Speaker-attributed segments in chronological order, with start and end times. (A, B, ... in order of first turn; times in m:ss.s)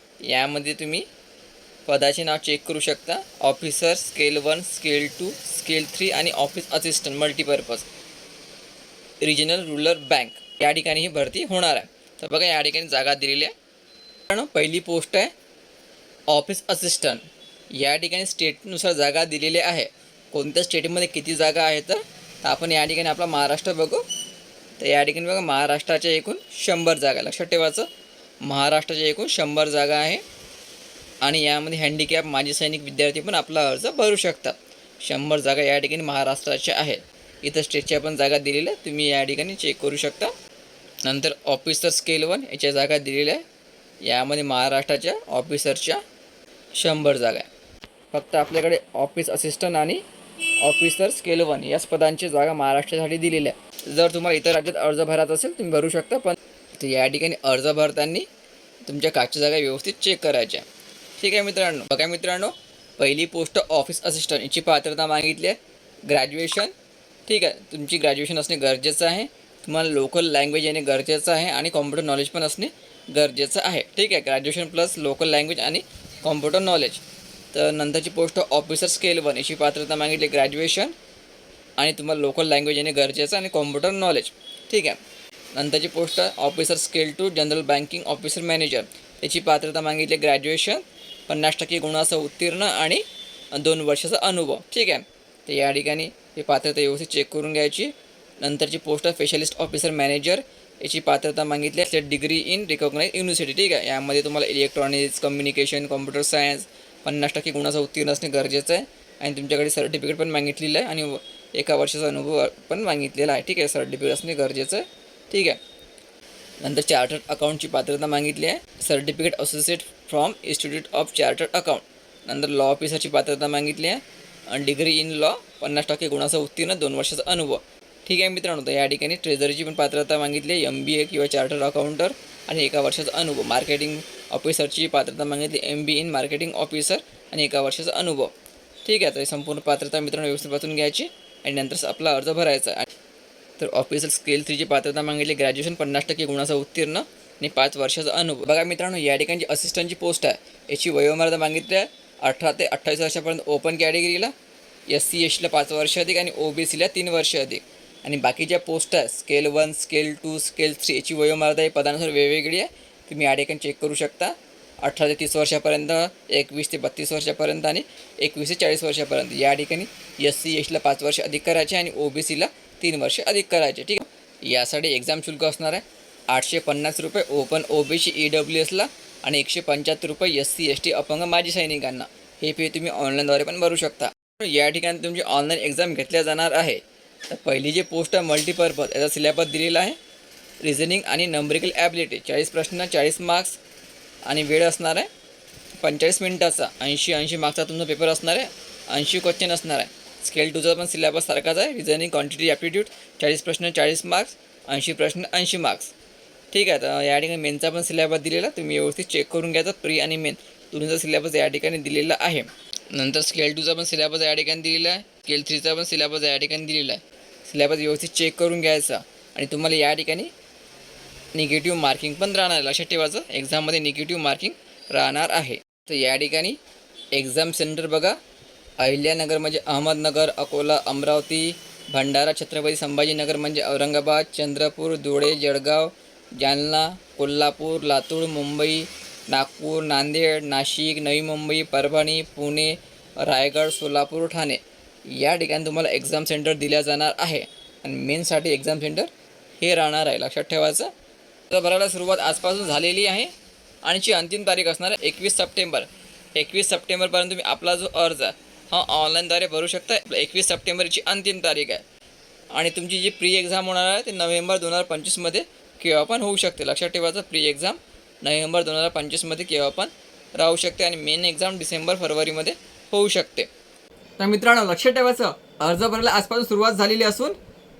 0:00.2-0:01.0 A
0:01.9-0:07.9 A
0:09.2-0:13.5 A
0:14.3-0:15.3 A
0:16.3-0:24.0 A
0:24.8-0:27.9 A
0:28.4-0:30.2 A
0:31.2-0:40.3 A
0:41.0-0:43.4 A
0:44.0-0:46.0 A
0:46.8-0:47.5 A
0:48.1-0:58.3 A
0:58.8-1:00.6 A
1:01.2-1:06.7 A
1:07.3-1:20.9 A
1:21.8-1:25.0 A
1:25.5-1:55.6 A
1:56.6-2:18.3 A
2:18.8-2:22.9 A
2:23.6-2:34.3 A
2:34.9-3:10.0 A
3:10.6-3:13.6 A
3:14.2-3:15.1 A
3:15.8-3:25.9 A
3:26.5-3:40.3 A
3:41.3-3:46.6 A
3:47.1-3:48.2 A
3:48.8-4:10.9 A
4:11.5-4:21.8 A
4:22.5-4:33.5 A
4:34.2-4:37.4 A